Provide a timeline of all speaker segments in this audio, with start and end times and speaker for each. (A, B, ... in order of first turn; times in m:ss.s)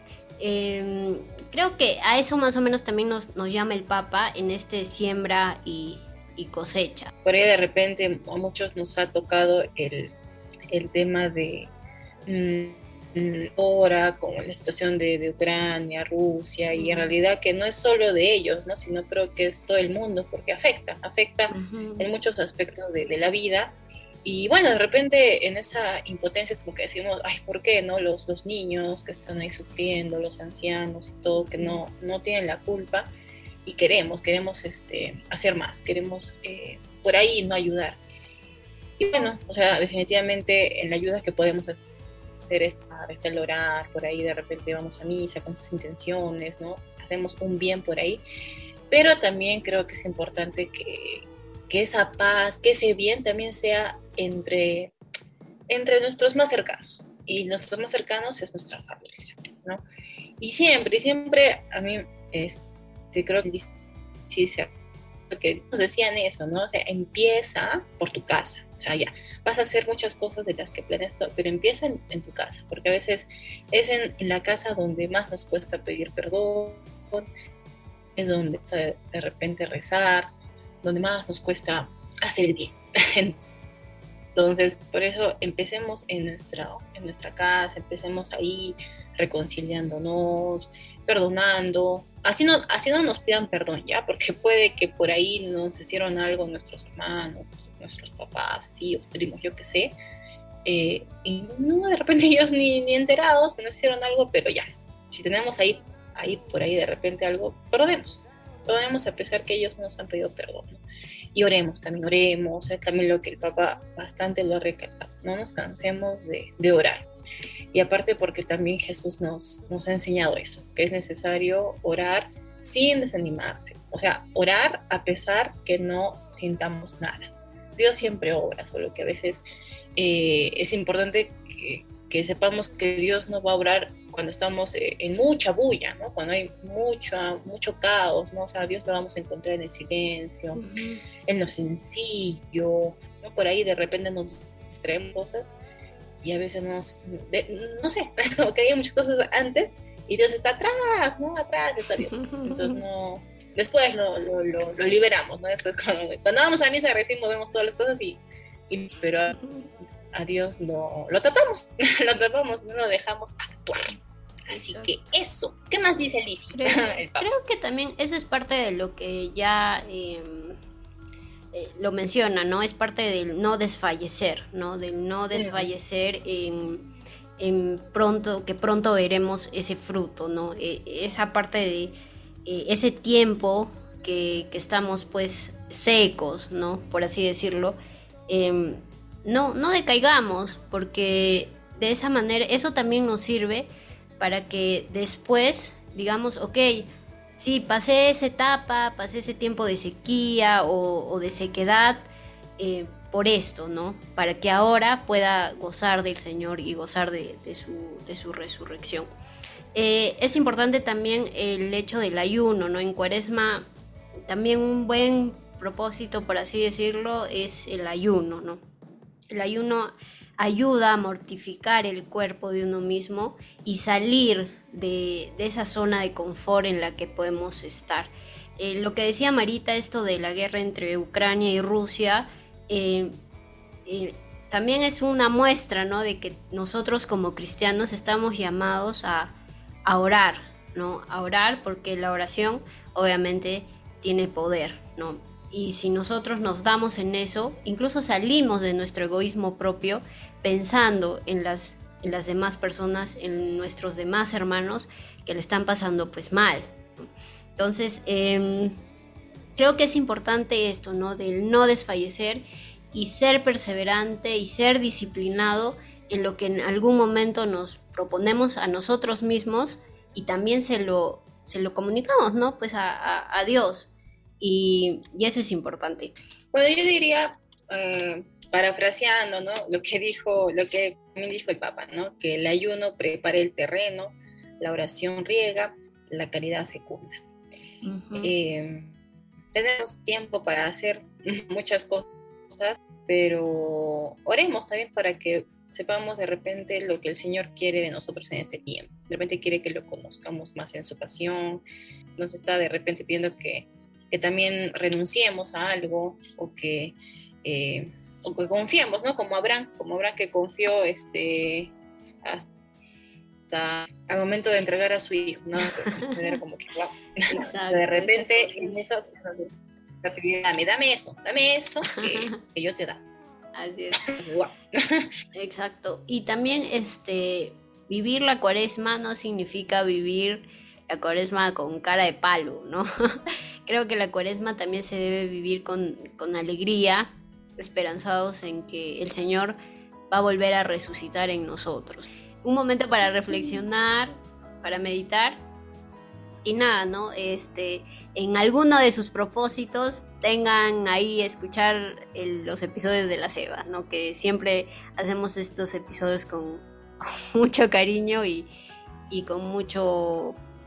0:00.4-0:07.1 A
0:07.2-0:10.1 B
0:10.7-0:11.7 B
0:12.2-0:33.1 B
0:16.7-0:17.2 A
0:21.5-0:22.1 A
0:33.6-0:38.0 B
0:39.0-0:41.8 B
0:42.5-0:48.2 B
0:48.9-0:54.9 B
0:55.7-0:59.8 B
1:00.4-1:03.7 B
1:04.3-1:04.7 B
1:05.3-1:17.3 B
1:18.2-1:20.3 B
1:20.8-1:23.4 B
1:24.3-1:39.9 B
1:40.6-1:57.1 B
1:57.7-2:09.4 B
2:10.0-2:20.6 B
2:20.5-2:21.0 A
2:21.3-2:25.5 B
2:26.2-2:39.4 B
2:32.2-2:32.8 A
2:39.3-2:39.7 A
2:40.1-2:47.3 B
2:44.5-2:44.9 A
2:46.5-2:50.6 A
2:51.5-2:56.9 A
2:55.3-2:55.7 B
2:57.4-3:01.9 A
3:02.4-3:07.8 A
3:08.3-3:22.1 A
3:22.6-3:29.1 A
3:29.7-3:33.7 A
3:34.3-3:38.6 A
3:39.3-3:53.2 A
3:53.8-4:16.7 A
4:17.6-4:18.7 A
4:19.6-4:36.2 A
4:36.5-4:47.2 B
4:47.8-4:48.3 A
4:48.2-4:49.0 B
4:49.5-5:01.6 B
5:02.2-5:11.7 B
5:13.5-5:23.0 B
5:15.8-5:16.1 A
5:17.3-5:18.8 A
5:21.9-5:22.4 A
5:23.6-5:24.0 A
5:24.0-5:25.1 B
5:25.3-5:32.8 A
5:33.7-5:39.6 A
5:40.1-5:45.4 A
5:46.4-5:58.5 A
5:59.1-6:00.4 A